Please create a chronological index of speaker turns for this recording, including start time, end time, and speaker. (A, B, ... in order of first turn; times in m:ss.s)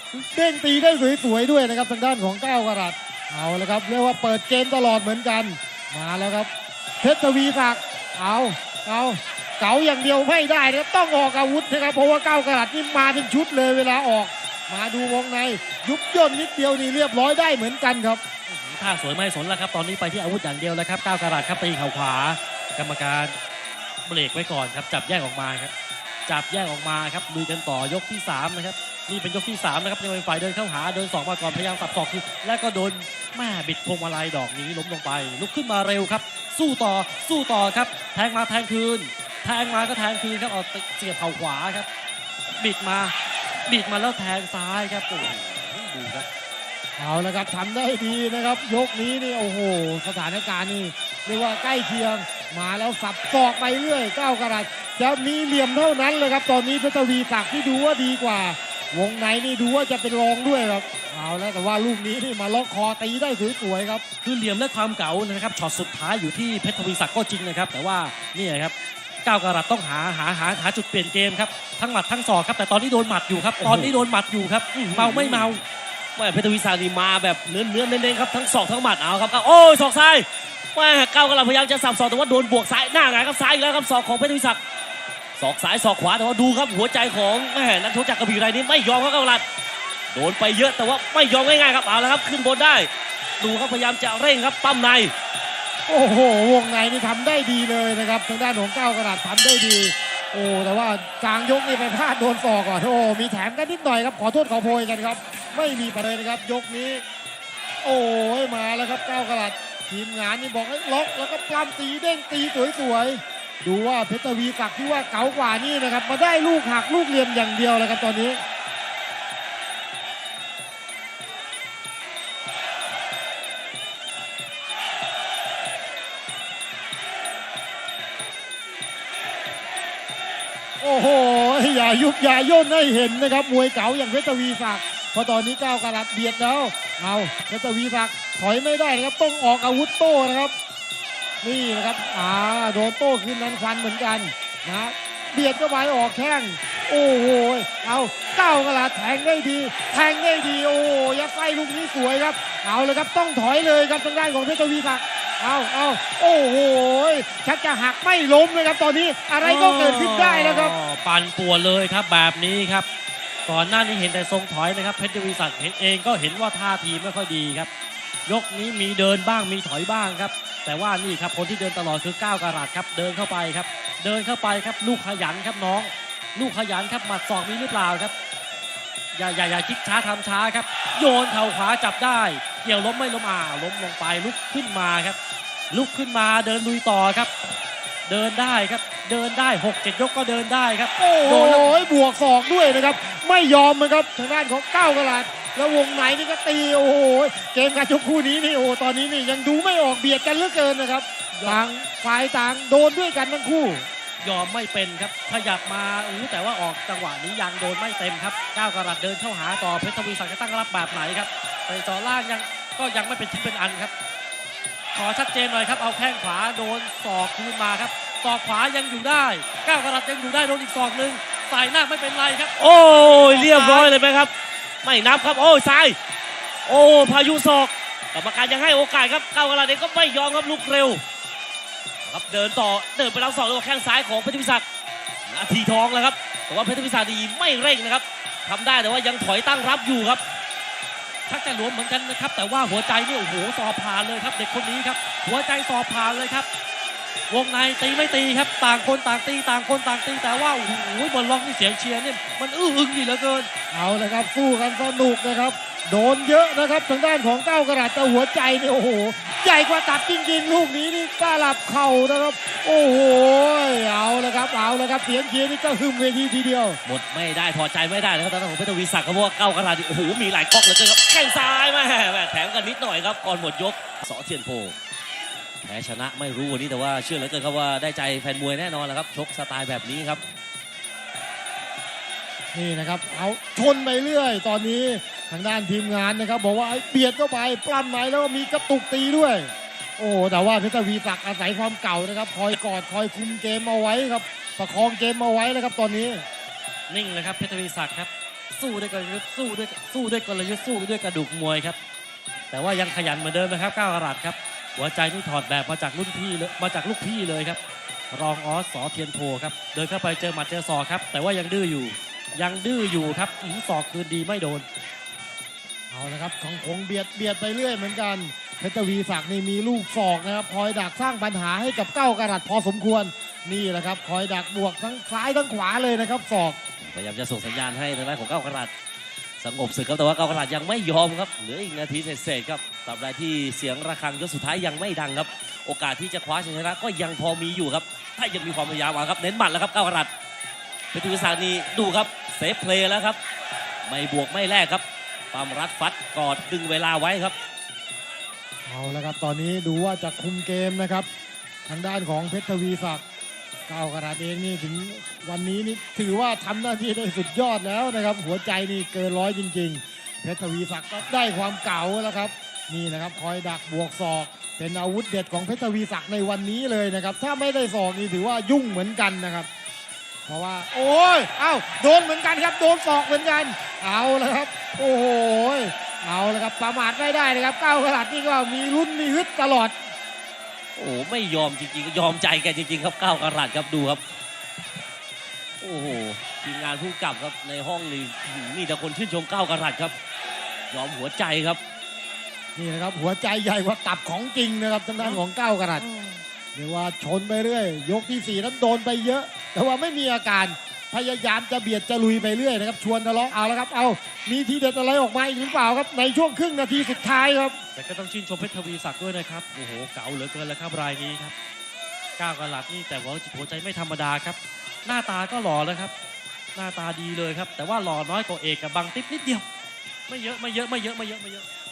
0:00.1-0:18.2 A
0:18.5-0:23.4 B
0:24.0-0:25.7 B
0:26.3-0:41.9 B
0:42.6-0:43.1 B
0:43.7-0:46.3 B
0:47.0-1:04.0 A
1:04.2-1:15.6 B
1:13.6-1:14.0 C
1:14.7-1:15.5 C
1:16.2-1:24.6 C
1:25.4-1:29.4 C
1:30.1-1:35.1 C
1:35.9-1:47.0 A
1:47.8-1:58.4 A
2:10.8-2:20.5 A
2:21.4-2:40.8 A
2:39.4-2:42.9 B
2:43.5-2:47.7 B
2:48.3-2:58.1 B
2:59.1-3:05.2 B
3:05.7-3:07.3 B
3:08.1-3:11.7 B
3:11.0-3:23.9 A
3:21.4-3:21.6 B
3:24.2-3:33.9 B
3:35.0-3:44.0 B
3:42.6-3:44.3 C
3:44.8-3:46.0 C
3:46.7-3:51.0 C
3:52.0-3:54.7 C
3:55.3-4:00.2 C
4:01.3-4:06.5 B
4:07.3-4:13.5 B
4:13.7-4:26.8 A
4:26.8-4:34.8 C
4:35.6-4:40.2 C
4:42.5-4:56.2 A
4:56.9-5:01.8 B
5:02.5-5:07.6 B
5:08.1-5:14.7 B
5:15.9-5:26.6 A
5:26.8-5:28.7 C
5:29.4-5:40.1 C
5:40.9-5:43.2 C
5:43.9-5:47.4 C
5:48.7-5:51.1 A
5:51.7-5:53.0 A
5:53.7-6:09.5 A
6:10.3-6:19.8 A
6:20.8-6:24.0 C
6:25.6-6:30.0 C
6:30.7-6:31.6 C
6:32.6-6:35.9 A
6:35.9-6:36.2 B
6:36.6-6:47.6 A
6:47.8-6:51.3 B
6:52.2-6:55.9 B
6:56.5-6:59.4 B
7:00.1-7:01.5 B